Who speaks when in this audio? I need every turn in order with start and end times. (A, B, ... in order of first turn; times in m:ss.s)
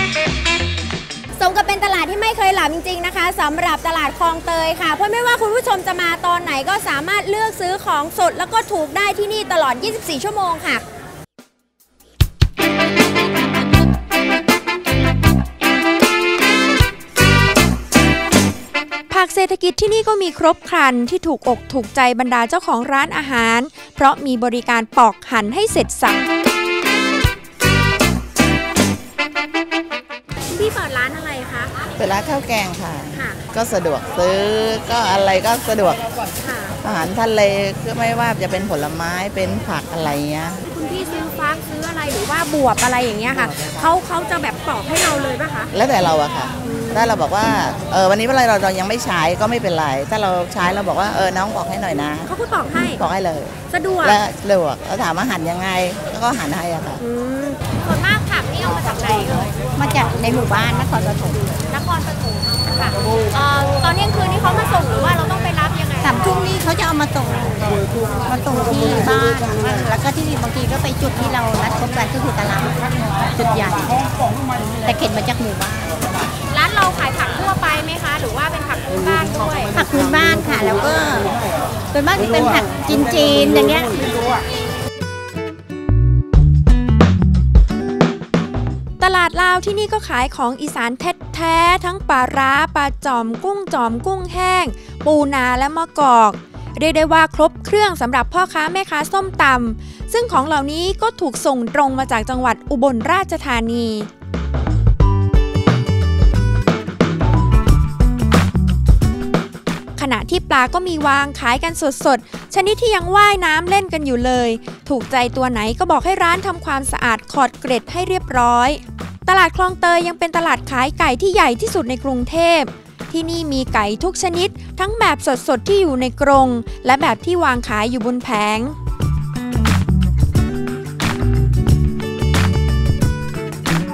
0:01.4-0:05.1 A
0:01.6-0:10.6 B
0:06.0-0:10.8 A
0:19.1-0:26.2 B
0:30.5-0:31.7 A
0:32.0-0:36.0 C
0:36.4-0:36.8 A
0:36.8-0:40.6 C
0:40.6-0:45.7 A
0:45.7-0:57.0 C
0:46.7-0:47.2 A
0:52.3-0:53.0 A
0:53.7-0:54.2 A
0:57.0-0:59.6 A
0:59.7-1:01.6 D
1:01.7-1:06.2 A
1:06.0-1:14.0 D
1:14.8-1:16.0 D
1:16.5-1:19.7 A
1:19.7-1:21.3 D
1:21.9-1:24.0 D
1:29.0-1:44.1 B
1:50.0-2:08.8 B